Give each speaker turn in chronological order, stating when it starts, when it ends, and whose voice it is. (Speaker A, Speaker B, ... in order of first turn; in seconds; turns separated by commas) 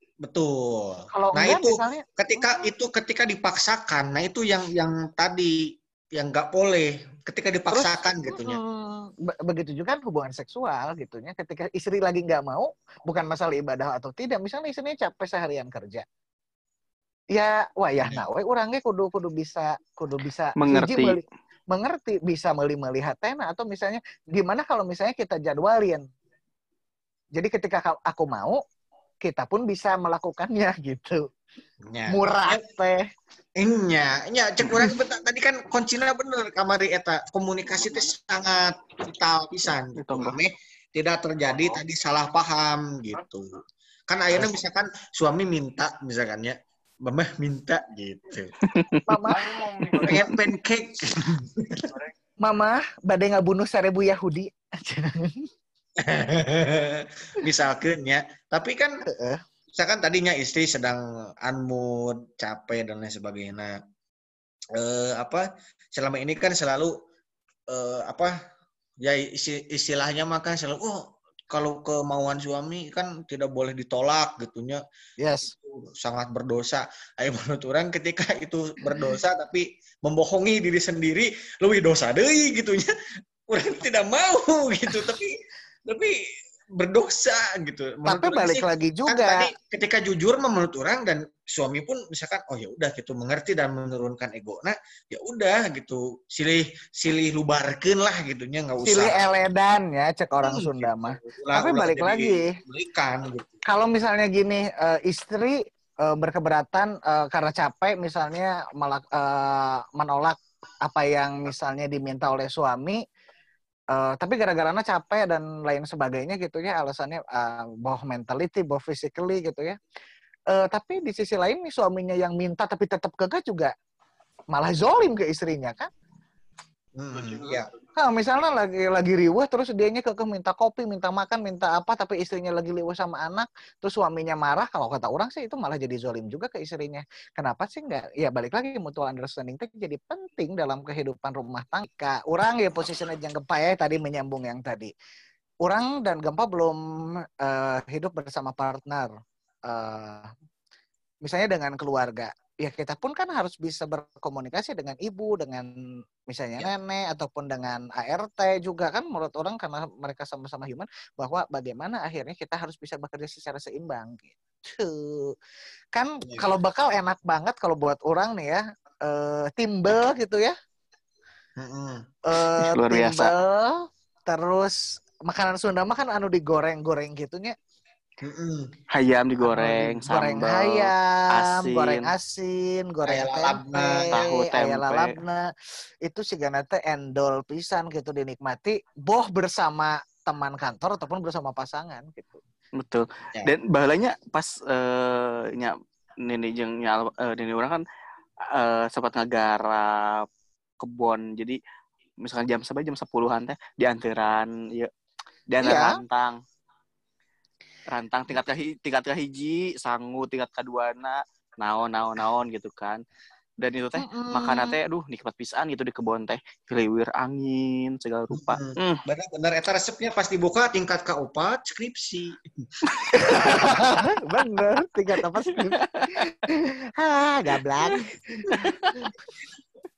Speaker A: 0.2-5.6, Speaker B: 1.1-2.7, Speaker A: 6.2-8.6, Speaker B: 7.7-16.0, Speaker B: 17.3-26.1, Speaker C: 20.6-21.2, Speaker B: 27.4-28.6, Speaker B: 29.2-31.2, Speaker A: 31.9-32.6, Speaker B: 32.1-33.0, Speaker A: 33.6-48.5, Speaker C: 40.0-40.4, Speaker C: 48.7-49.0, Speaker B: 49.1-49.4, Speaker C: 49.9-50.2, Speaker A: 50.0-51.9, Speaker B: 52.4-55.5, Speaker A: 56.0-59.0, Speaker B: 59.1-59.4, Speaker A: 59.7-63.8, Speaker A: 64.8-66.9, Speaker A: 67.7-68.3, Speaker A: 69.0-71.0, Speaker A: 71.5-74.8, Speaker B: 75.2-75.5, Speaker A: 75.5-82.9, Speaker B: 78.9-79.2, Speaker A: 83.5-86.2, Speaker A: 86.8-99.2, Speaker B: 88.0-89.5, Speaker B: 98.8-102.5, Speaker A: 100.4-103.6, Speaker B: 103.7-113.0, Speaker B: 113.9-119.8, Speaker B: 120.5-123.7, Speaker B: 124.5-125.9, Speaker A: 127.0-127.7, Speaker B: 127.9-144.9, Speaker B: 145.6-146.8, Speaker B: 147.4-149.1, Speaker B: 149.7-150.3, Speaker B: 151.2-155.7, Speaker B: 156.3-165.3, Speaker B: 165.9-170.5, Speaker A: 171.6-172.1, Speaker B: 172.3-177.6, Speaker C: 172.6-173.3, Speaker A: 178.2-178.7, Speaker C: 178.9-182.1, Speaker B: 179.4-185.5, Speaker A: 183.1-184.2, Speaker C: 184.1-185.1, Speaker B: 186.1-192.4, Speaker C: 192.8-195.7, Speaker C: 196.2-197.8, Speaker C: 198.5-200.3, Speaker C: 200.8-201.6, Speaker C: 202.2-204.9, Speaker C: 205.5-206.4, Speaker B: 205.6-206.0, Speaker C: 207.9-213.0, Speaker C: 213.6-219.0, Speaker B: 213.9-214.8, Speaker A: 218.3-222.4, Speaker C: 223.1-223.5, Speaker B: 223.2-229.1, Speaker C: 225.5-226.3, Speaker C: 227.8-229.1